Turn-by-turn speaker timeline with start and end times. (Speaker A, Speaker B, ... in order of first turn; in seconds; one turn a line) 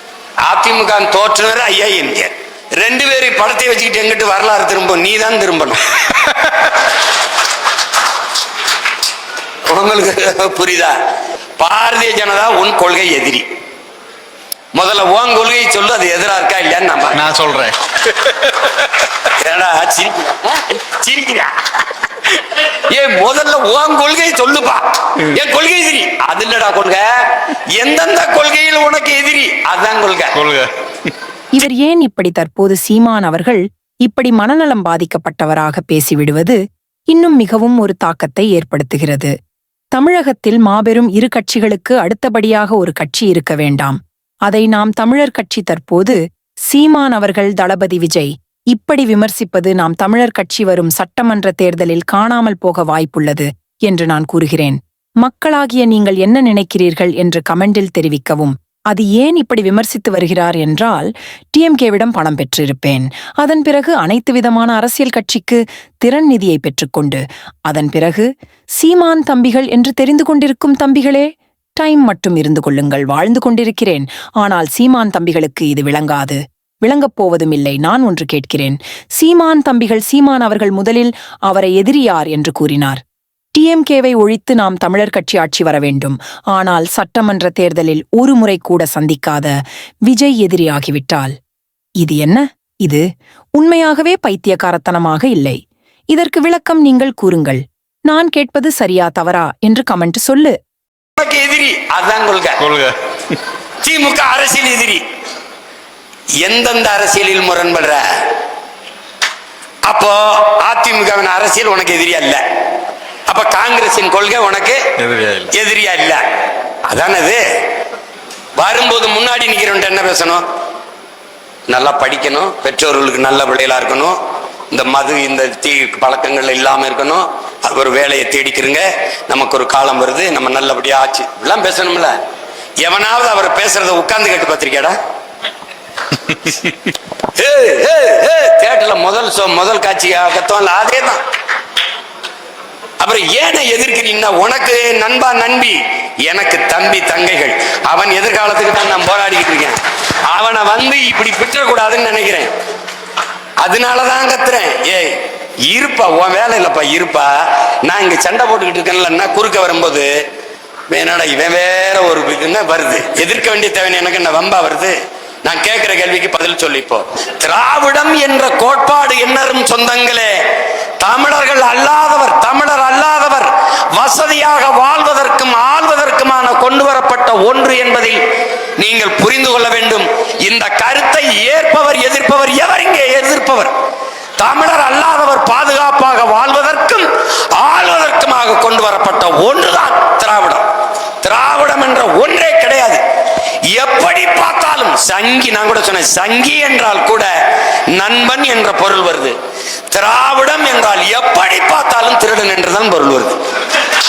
Speaker A: 0.4-6.3
Speaker A: 9.7-10.9
Speaker A: 11.6-13.4
Speaker A: 14.7-17.3
Speaker B: 17.2-18.3
Speaker A: 19.2-21.5
Speaker A: 22.2-30.6
Speaker C: 31.5-36.6
Speaker C: 37.1-39.3
Speaker C: 39.9-68.3
Speaker C: 68.8-83.0
Speaker C: 83.5-89.5
Speaker C: 90.1-91.3
Speaker C: 92.0-93.0
Speaker C: 93.6-95.6
Speaker C: 96.1-100.5
Speaker A: 101.2-102.8
Speaker B: 102.6-102.9
Speaker A: 103.8-105.0
Speaker A: 106.4-108.0
Speaker A: 109.9-112.4
Speaker A: 113.3-114.9
Speaker B: 115.0-115.5
Speaker A: 115.5-116.2
Speaker A: 116.8-117.4
Speaker A: 118.5-120.4
Speaker A: 121.7-124.2
Speaker A: 124.7-132.1
Speaker A: 132.8-134.9
Speaker A: 137.3-141.2
Speaker A: 143.0-152.5
Speaker A: 153.6-157.3
Speaker A: 157.8-160.1
Speaker A: 160.9-170.4
Speaker A: 171.0-178.2
Speaker A: 178.8-183.7
Speaker A: 184.4-190.6
Speaker A: 191.2-193.0
Speaker A: 193.7-197.3
Speaker A: 197.9-199.3
Speaker A: 199.9-203.4